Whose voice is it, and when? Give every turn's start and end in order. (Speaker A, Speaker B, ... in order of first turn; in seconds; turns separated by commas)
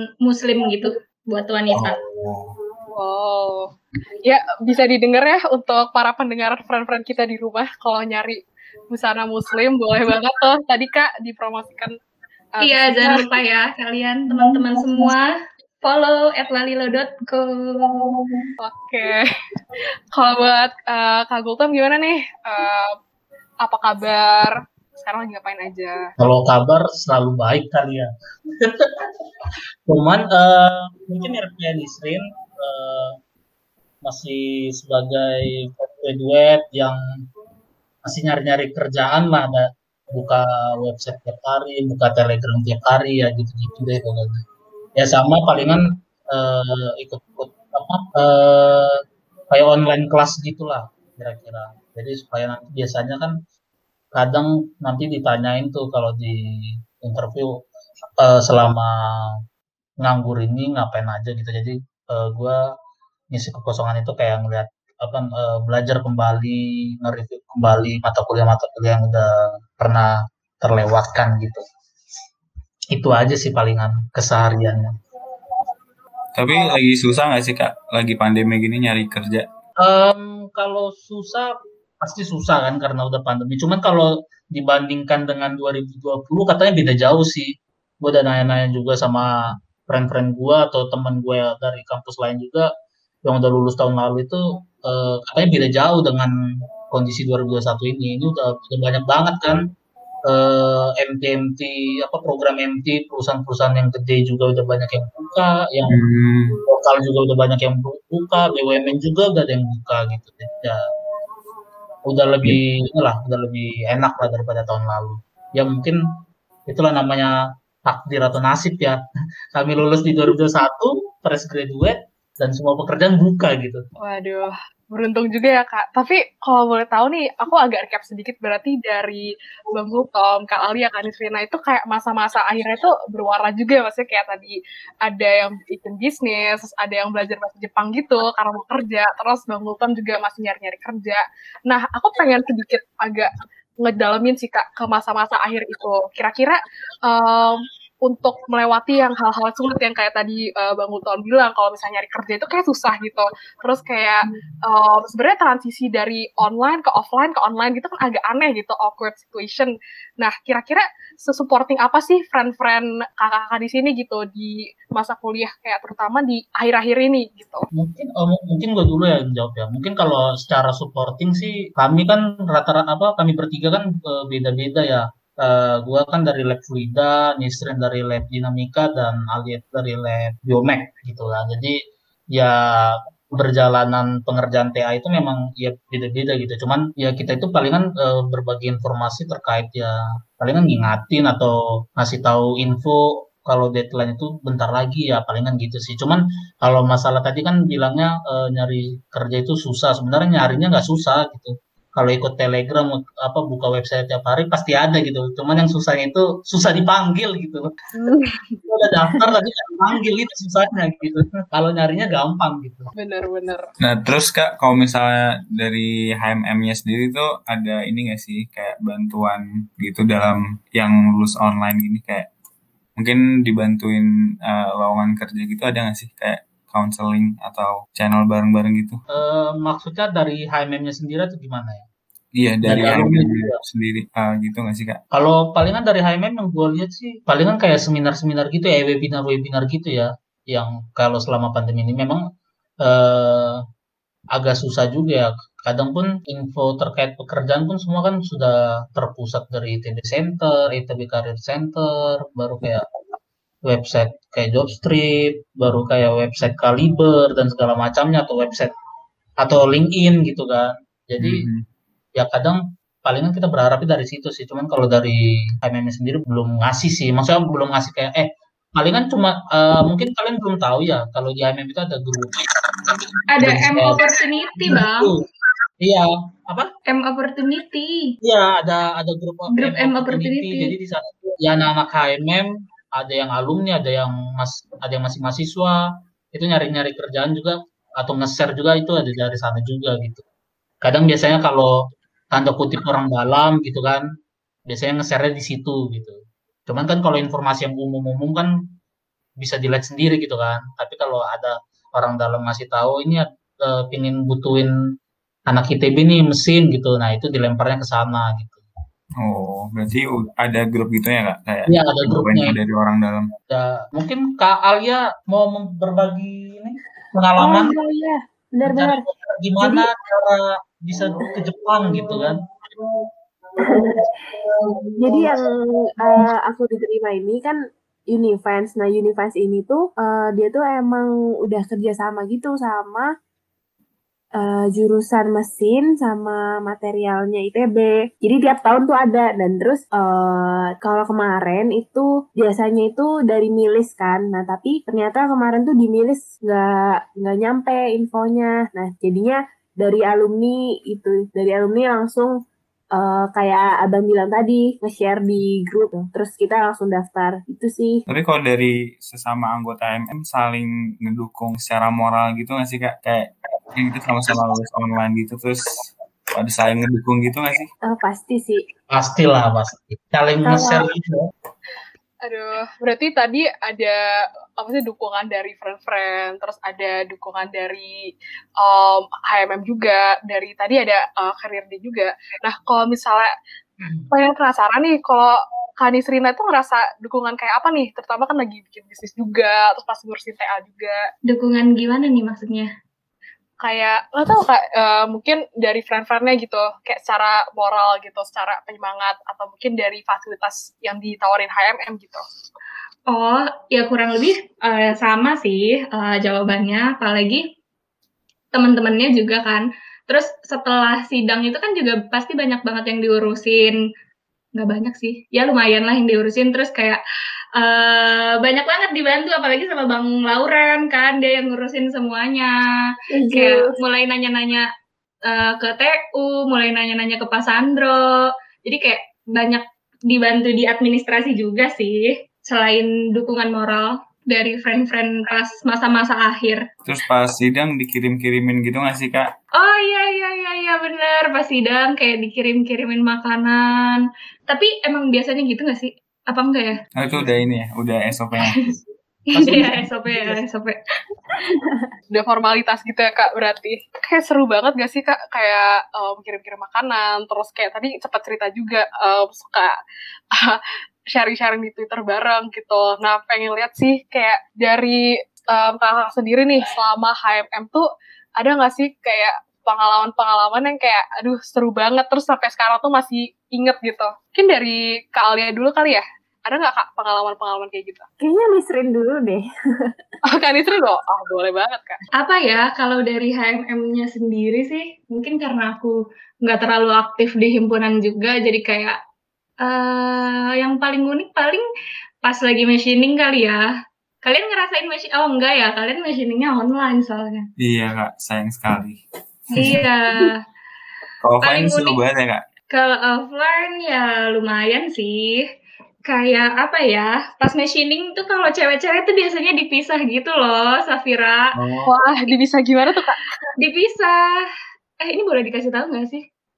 Speaker A: 0.2-2.0, Speaker B: 1.7-2.5, Speaker C: 2.9-11.9, Speaker C: 12.6-13.4, Speaker A: 12.6-18.1, Speaker D: 14.3-15.1, Speaker C: 18.6-19.3, Speaker C: 20.1-22.9, Speaker C: 23.6-26.1, Speaker E: 26.2-33.2, Speaker E: 34.0-37.0, Speaker E: 38.0-44.4, Speaker E: 45.0-49.0, Speaker E: 49.5-53.4, Speaker E: 54.1-57.6, Speaker E: 58.2-59.4, Speaker E: 60.0-62.6, Speaker E: 63.3-71.6, Speaker E: 72.9-74.9, Speaker B: 76.3-79.5, Speaker E: 79.8-92.7, Speaker E: 93.2-96.3, Speaker E: 96.9-99.6, Speaker E: 100.3-106.0, Speaker B: 105.9-106.6, Speaker E: 106.7-110.8, Speaker E: 112.1-116.0, Speaker E: 116.7-119.0, Speaker E: 119.5-123.8, Speaker C: 124.0-167.7, Speaker E: 167.8-181.8, Speaker E: 182.3-207.7, Speaker C: 208.0-208.4, Speaker E: 208.7-212.9, Speaker C: 213.0-213.7, Speaker B: 213.8-222.3, Speaker B: 223.0-229.0, Speaker E: 229.1-231.9, Speaker B: 232.4-235.0, Speaker E: 232.7-233.6, Speaker E: 235.1-242.2, Speaker E: 242.8-243.6, Speaker E: 244.3-252.9, Speaker E: 253.7-258.7, Speaker E: 259.4-261.5, Speaker B: 261.2-261.6, Speaker E: 262.1-275.1, Speaker A: 273.3-275.1, Speaker E: 275.8-276.7, Speaker A: 276.9-278.2, Speaker E: 278.2-290.2, Speaker A: 279.5-280.7, Speaker E: 290.8-291.8, Speaker E: 292.3-294.1, Speaker E: 294.7-298.5, Speaker E: 299.4-304.7, Speaker E: 305.5-308.6, Speaker B: 309.2-313.3, Speaker E: 311.7-312.6, Speaker E: 313.5-317.8, Speaker D: 317.4-319.0, Speaker E: 318.6-322.4, Speaker D: 319.6-319.9, Speaker E: 323.6-324.0, Speaker D: 323.6-324.1, Speaker E: 324.6-325.3, Speaker D: 324.9-327.6, Speaker D: 328.1-333.1, Speaker D: 334.4-352.4, Speaker D: 352.9-358.0, Speaker B: 358.1-367.7, Speaker D: 367.9-368.6, Speaker E: 368.9-371.2, Speaker D: 370.4-370.9, Speaker C: 372.2-374.0, Speaker C: 374.6-378.1, Speaker C: 378.6-383.3, Speaker C: 384.1-391.0, Speaker A: 391.3-392.7, Speaker C: 393.6-402.2, Speaker A: 403.1-407.4, Speaker A: 408.5-413.8, Speaker A: 414.6-417.0, Speaker A: 417.6-422.6, Speaker D: 423.1-423.7, Speaker A: 423.3-424.6, Speaker A: 425.2-436.6, Speaker B: 436.9-439.3, Speaker A: 439.6-446.8, Speaker B: 447.0-448.6, Speaker A: 448.4-448.7, Speaker A: 449.3-450.8, Speaker E: 449.3-450.4, Speaker D: 451.5-451.9, Speaker C: 452.1-459.8, Speaker C: 460.3-460.6, Speaker C: 461.1-467.9, Speaker C: 468.4-478.0, Speaker D: 478.2-479.9, Speaker C: 480.3-482.0, Speaker A: 482.2-485.9, Speaker A: 486.4-489.0, Speaker A: 489.6-491.6, Speaker A: 492.2-493.6, Speaker A: 494.2-497.5, Speaker B: 497.6-499.0, Speaker A: 499.5-500.4, Speaker B: 499.5-499.8, Speaker B: 501.2-502.4, Speaker A: 501.4-502.0, Speaker A: 502.7-505.4, Speaker A: 506.1-511.6, Speaker B: 511.6-511.9, Speaker C: 511.9-513.2, Speaker A: 513.6-514.1, Speaker A: 515.0-516.2